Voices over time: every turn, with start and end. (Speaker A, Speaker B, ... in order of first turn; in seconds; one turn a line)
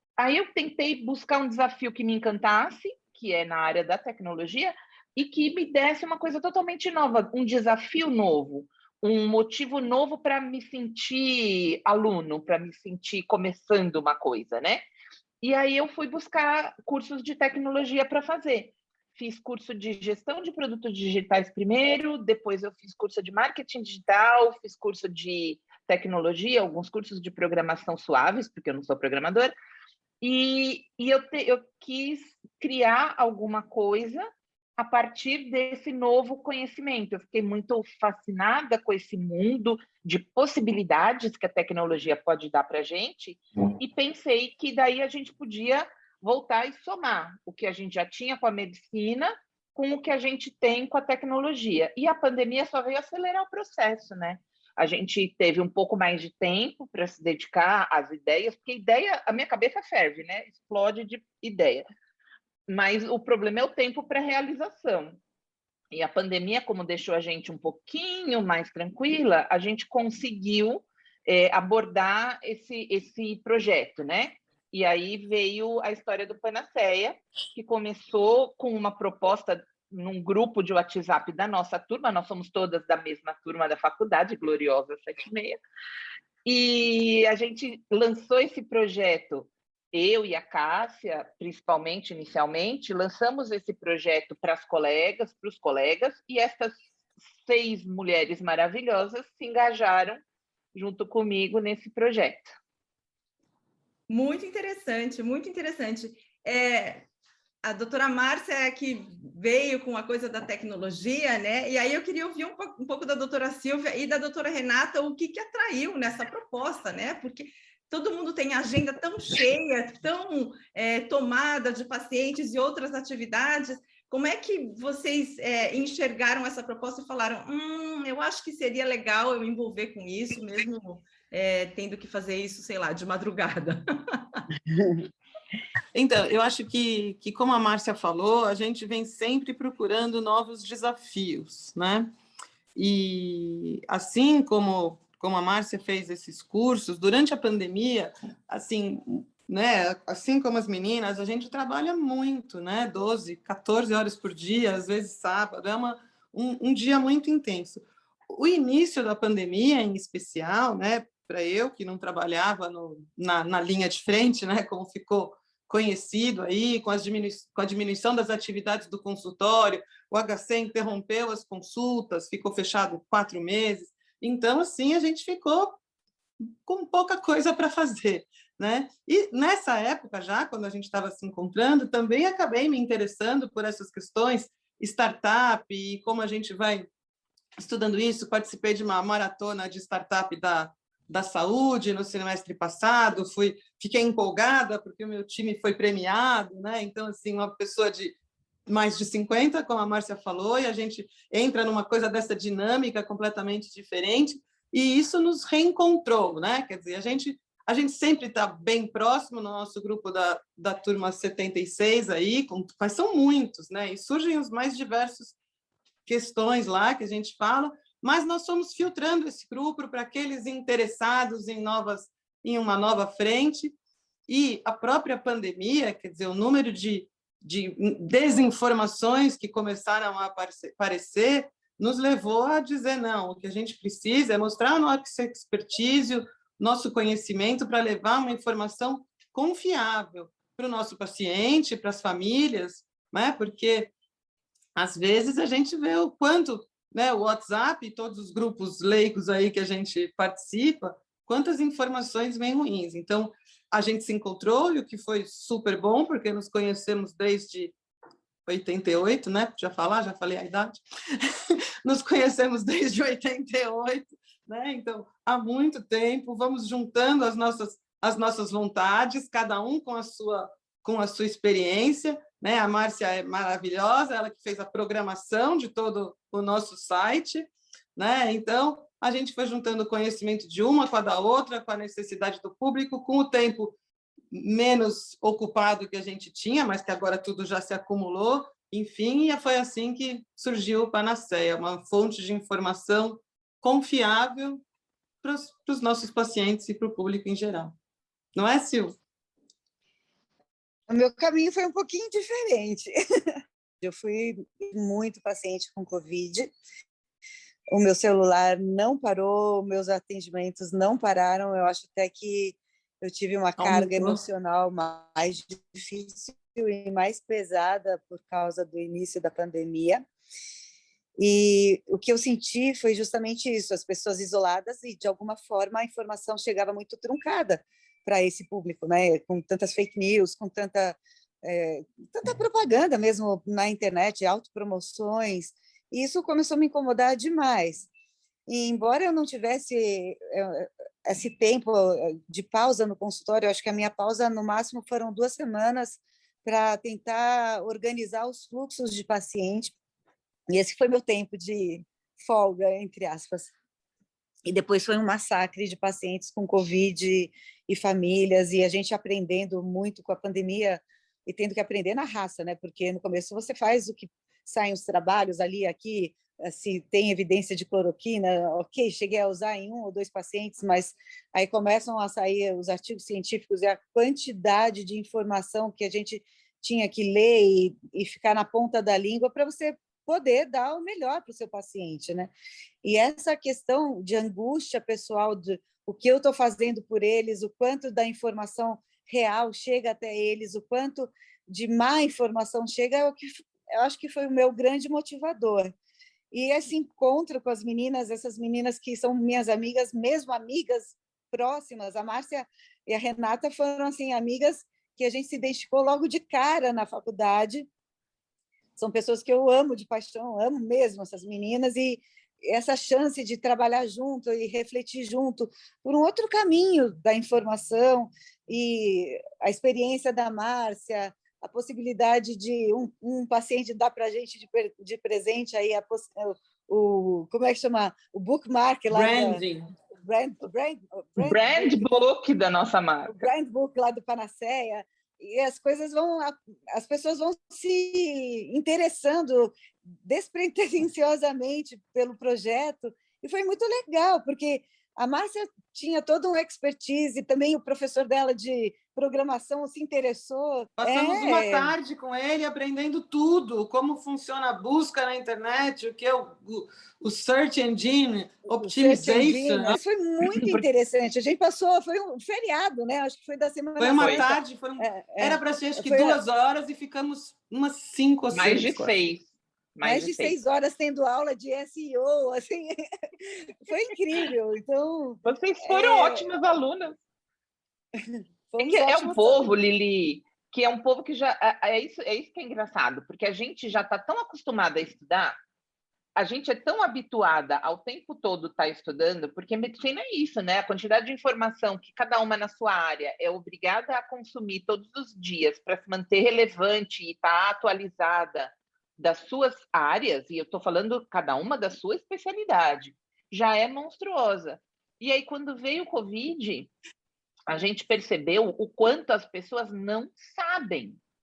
Speaker A: 0.2-14.8
Speaker A: 15.4-29.5
Speaker A: 30.2-61.9
Speaker A: 62.7-65.2
Speaker A: 65.9-85.6
Speaker A: 86.4-96.8
Speaker A: 97.4-100.2
Speaker A: 100.7-102.6
Speaker B: 104.1-107.1
Speaker B: 107.6-134.4
Speaker C: 134.7-135.0
Speaker D: 135.9-142.1
Speaker D: 142.8-175.8
Speaker D: 176.4-186.9
Speaker D: 187.6-198.2
Speaker D: 198.7-215.3
Speaker D: 216.1-223.7
Speaker D: 224.3-243.9
Speaker D: 244.8-257.7
Speaker D: 258.4-283.7
Speaker D: 284.3-294.6
Speaker D: 295.2-297.7
Speaker D: 298.3-299.0
Speaker C: 300.9-306.5
Speaker C: 307.7-320.1
Speaker D: 313.6-314.2
Speaker C: 321.2-337.9
Speaker C: 338.5-349.7
Speaker C: 350.5-353.5
Speaker C: 354.4-395.7
Speaker C: 396.3-407.7
Speaker C: 408.8-429.4
Speaker D: 428.9-429.7
Speaker C: 430.0-431.9
Speaker A: 431.2-433.1
Speaker C: 433.1-451.8
Speaker D: 450.8-459.8
Speaker C: 458.5-466.2
Speaker D: 463.8-468.9
Speaker A: 464.0-464.3
Speaker A: 468.3-470.4
Speaker C: 469.8-476.2
Speaker A: 475.2-477.0
Speaker C: 477.9-479.5
Speaker A: 478.6-485.4
Speaker A: 486.2-506.7
Speaker A: 507.5-511.0